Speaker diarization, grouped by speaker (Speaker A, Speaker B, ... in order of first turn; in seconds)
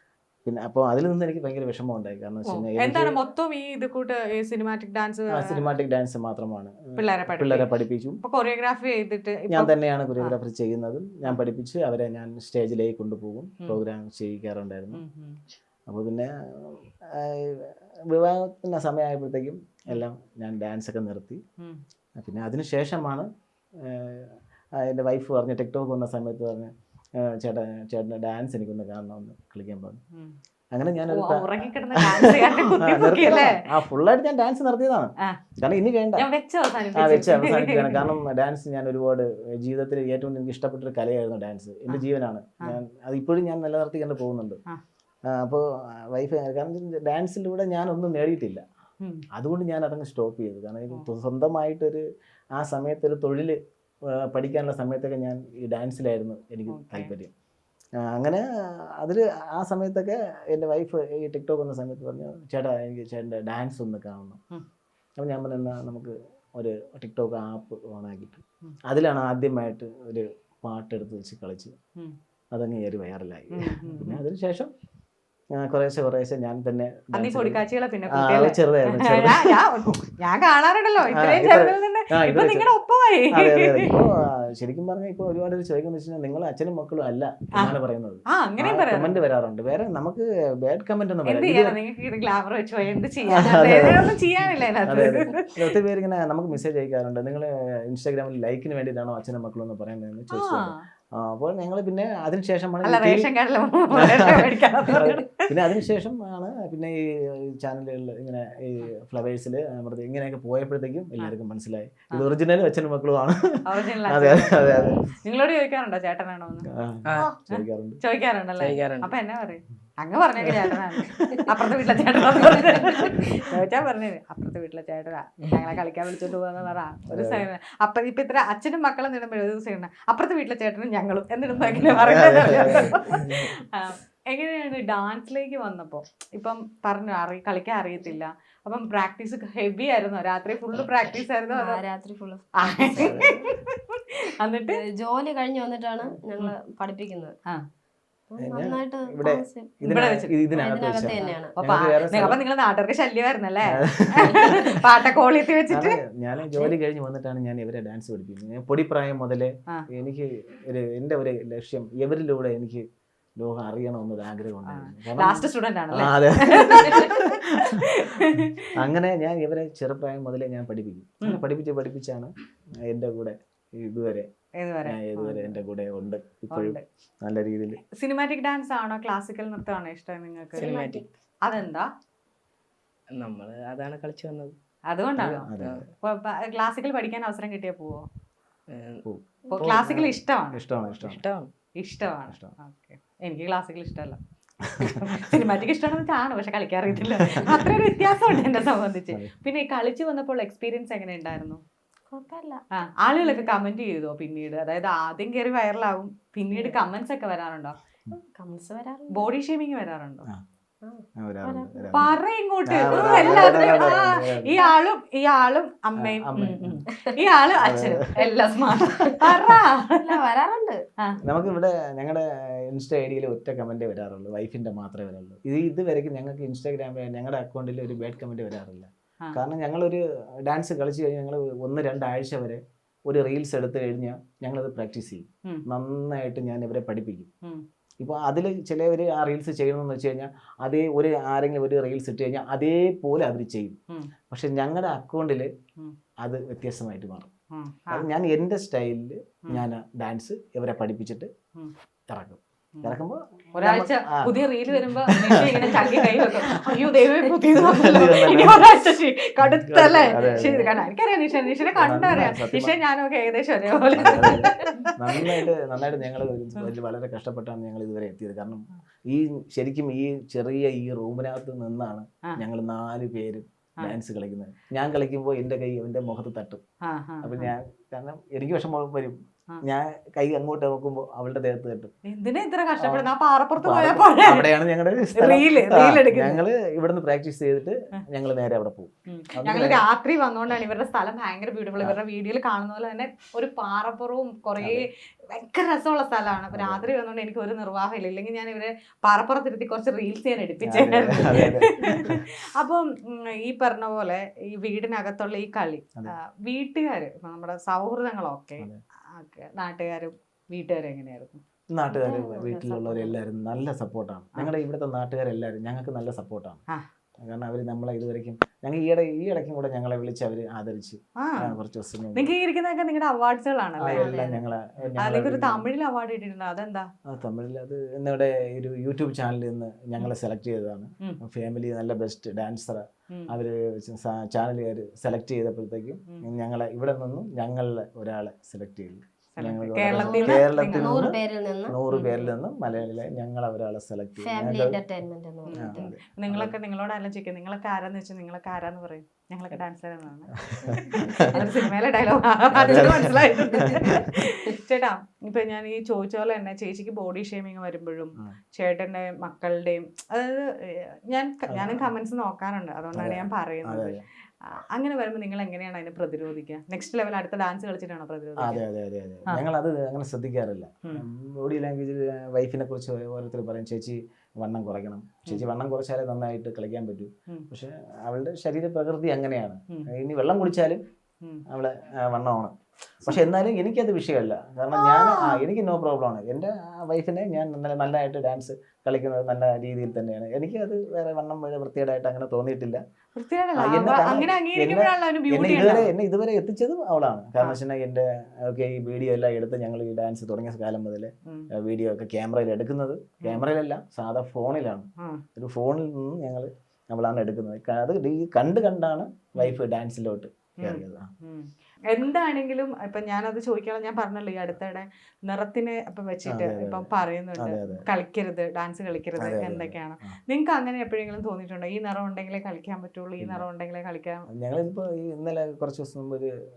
Speaker A: 0.4-3.1, 5.3-8.2, 9.5-15.0, 15.9-21.4, 22.2-23.3, 23.8-26.7, 27.2-30.0, 30.7-36.3, 36.9-44.6, 45.3-48.6, 49.3-52.0, 52.6-53.6, 54.3-57.3, 58.0-58.4, 59.0-64.4, 65.2-71.7, 72.5-74.7, 75.6-77.6, 78.1-80.1, 81.1-82.7, 83.3-91.8, 93.3-94.0, 94.8-103.3, 104.0-115.0, 116.7-118.0, 120.5-121.5, 122.3-123.2, 127.1-127.4, 131.9-132.9, 142.9-143.3, 148.4-152.4, 153.8-154.7, 155.7-162.8, 163.4-172.3, 172.9-174.3, 174.8-177.8, 185.2-185.9, 189.0-191.2, 194.8-195.4, 196.9-198.2, 211.2-214.5, 216.0-216.8, 217.6-219.5, 221.2-237.3, 238.0-243.8, 244.3-245.5, 246.2-247.3, 247.9-251.3, 252.1-254.3, 254.9-256.9, 257.4-258.6, 259.4-260.7, 261.7-262.7, 263.9-276.6, 277.2-281.9, 282.8-283.1, 283.6-289.8, 294.6-294.9, 296.5-296.9, 300.6-302.2, 311.7-316.6, 317.2-322.3, 323.8-325.7, 327.1-341.1, 341.7-344.8, 345.5-346.5, 350.4-351.4, 352.5-354.0, 361.5-361.9, 362.9-364.0, 368.4-380.8, 381.5-392.8, 393.6-411.1, 416.3-417.9, 419.2-420.2, 424.3-426.3
Speaker B: 2.5-5.8, 7.0-7.7, 8.2-10.4, 14.9-15.4, 31.1-33.6, 36.1-38.1, 56.7-57.1, 73.5-74.2, 77.1-84.0, 88.3-89.1, 91.2-95.5, 100.3-100.8, 102.8-105.5, 113.6-116.7, 117.5-141.8, 142.6-144.8, 149.8-156.0, 164.7-168.7, 174.6-175.6, 176.5-176.8, 177.9-180.7, 181.4-181.9, 184.9-185.5, 186.0-188.1, 189.5-190.6, 191.8-194.2, 194.8-201.6, 202.8-207.8, 209.1-210.2, 211.9-220.2, 247.5-248.0, 253.6-265.4, 276.8-277.5, 282.1-284.5, 285.1-286.4, 289.1-311.4, 312.9-313.1, 321.2-321.5, 322.1-324.3, 325.0-326.9, 339.4-341.1, 341.9-342.3, 345.5-368.6, 384.7-385.4, 393.1-395.9, 410.6-424.2
Speaker C: 117.0-117.3, 118.6-119.1, 133.1-133.5, 180.6-181.0, 183.1-184.6, 185.6-185.8, 188.7-189.0, 189.6-190.1, 190.9-191.5
Speaker D: 141.5-143.5, 144.7-147.3, 148.3-149.8, 150.5-151.5, 180.6-181.1, 202.1-202.6, 203.2-203.6, 206.5-206.8, 208.1-209.3, 210.8-212.0, 212.9-213.9, 220.0-220.8, 260.2-260.7, 311.9-312.9, 323.9-324.4, 339.9-341.8, 344.2-345.9